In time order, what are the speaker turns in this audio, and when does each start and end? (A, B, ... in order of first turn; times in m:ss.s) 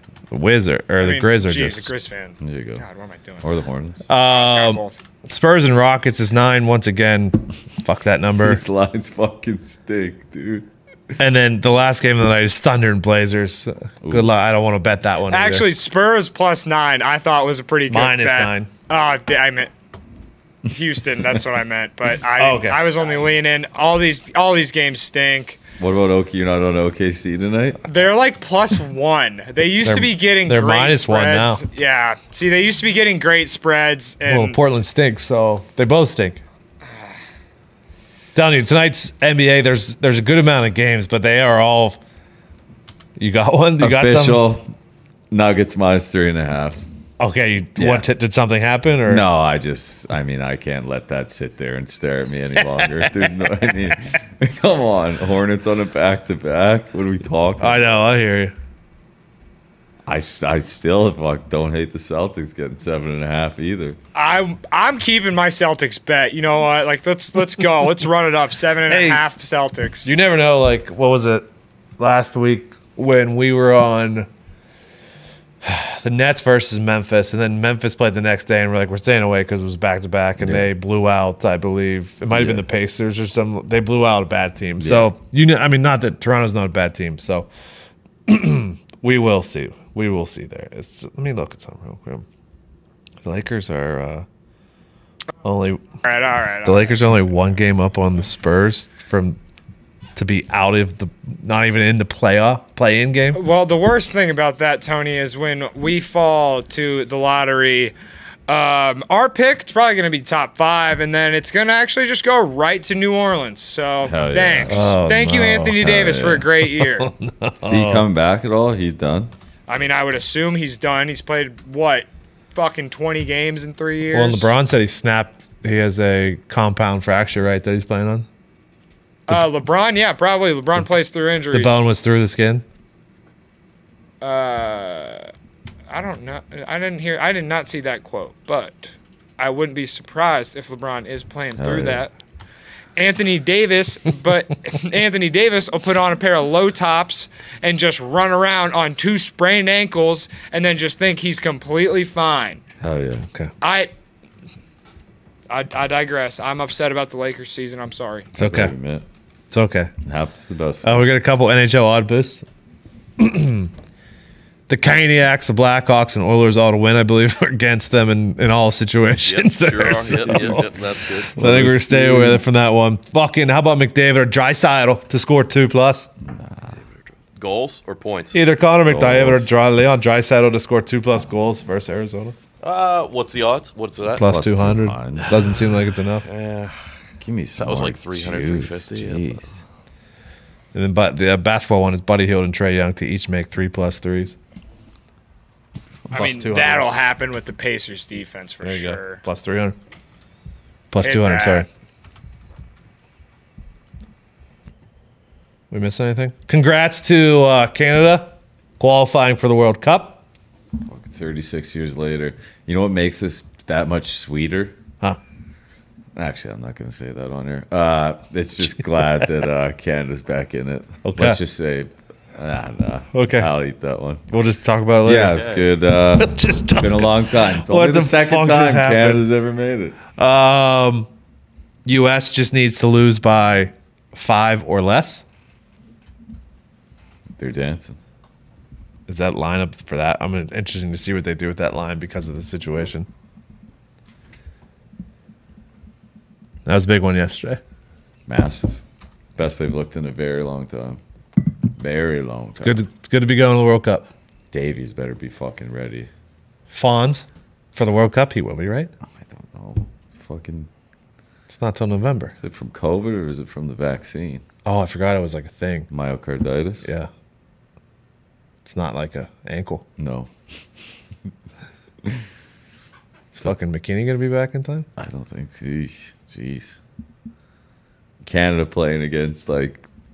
0:00.3-0:01.9 A
0:01.0-0:03.4 B
0:02.4-0:02.8 C
0:03.4-0:04.0 C
0:04.1-0:08.6 A
0:04.1-0:05.0 B
0:08.4-0:10.7 C
0:11.2-0:15.7 A
0:14.0-0:14.3 C
0:15.3-0:19.7 B
0:17.9-0:18.7 A
0:20.7-0:25.6 B
0:22.4-0:23.0 A
0:25.8-0:27.8 C
0:27.9-0:34.6 B
0:29.8-0:31.6 A
0:34.2-0:36.4 A
0:38.3-0:42.0 A
0:43.2-0:44.5 A
0:43.8-0:44.7 C
0:45.3-0:46.8 C
0:47.2-0:49.3 A
0:47.8-0:48.1 C
0:49.1-0:57.9 C
0:52.6-0:53.1 A
0:57.6-0:58.5 A
1:00.1-1:04.0 C
1:04.1-1:10.1 B
1:08.9-1:09.2 A
1:10.0-1:11.5 A
1:12.0-1:14.3 A
1:15.6-1:27.5 A
1:20.4-1:20.7 C
1:22.3-1:22.6 C
1:24.8-1:25.1 C
1:28.3-1:32.2 A
1:33.2-1:34.2 A
1:35.4-1:36.0 A
1:36.0-1:37.0 B
1:36.6-1:39.4 A
1:40.2-1:43.4 A
1:43.3-1:47.9 B
1:48.5-1:57.1 B
1:54.0-1:55.0 C
1:54.7-1:55.9 A
1:55.8-1:56.5 C
1:56.6-1:58.1 A
1:57.6-1:59.3 C
1:59.7-2:04.5 B
2:04.1-2:08.2 A
2:09.3-2:11.8 B
2:11.5-2:12.6 A
2:14.2-2:15.3 B
2:15.9-2:22.1 B
2:21.6-2:22.0 C
2:23.0-2:32.6 B
2:32.8-2:33.2 C
2:33.6-2:33.9 B
2:35.5-2:38.3 B
2:38.3-2:39.0 C
2:38.4-2:38.7 A
2:39.5-2:39.9 A
2:40.0-2:41.2 C
2:40.8-2:42.4 A
2:43.2-2:43.7 A
2:44.7-2:50.7 A
2:49.2-2:51.3 D
2:50.2-2:50.7 C
2:51.3-2:56.1 A
2:51.3-2:52.4 C
2:56.2-2:56.8 C
2:57.3-2:58.4 D
2:58.3-3:02.3 A
2:58.8-2:59.5 C
3:02.6-3:04.2 D
3:04.2-3:05.4 C
3:04.2-3:06.2 A
3:06.2-3:06.8 D
3:07.2-3:09.6 C
3:07.6-3:09.4 D
3:10.7-3:14.4 A
3:16.1-3:16.9 A
3:16.1-3:19.2 B
3:18.6-3:19.8 A
3:20.9-3:21.7 A
3:21.0-3:21.7 B
3:25.7-3:30.2 A
3:30.9-3:34.8 C
3:36.2-3:44.2 C
3:39.0-3:39.3 A
3:41.0-3:41.4 A
3:43.1-3:43.5 A
3:44.3-3:45.5 A
3:45.0-3:50.0 C
3:45.4-3:45.7 D
3:46.2-3:49.2 A
3:50.2-3:51.1 A
3:51.8-3:55.2 A
3:57.4-3:58.0 C
3:59.1-4:03.1 A
4:06.6-4:07.6 A
4:08.3-4:08.8 C
4:09.4-4:11.0 C
4:11.8-4:12.8 C
4:12.6-4:14.1 A
4:14.5-4:16.1 C
4:16.7-4:18.9 A
4:19.1-4:20.7 C
4:21.5-4:22.3 A
4:22.4-4:24.4 C
4:24.6-4:25.9 A
4:25.9-4:26.9 C
4:26.8-4:27.1 A
4:28.6-4:29.8 A
4:30.0-4:30.3 C
4:33.3-4:34.8 A
4:35.0-4:36.8 C
4:38.2-4:39.9 C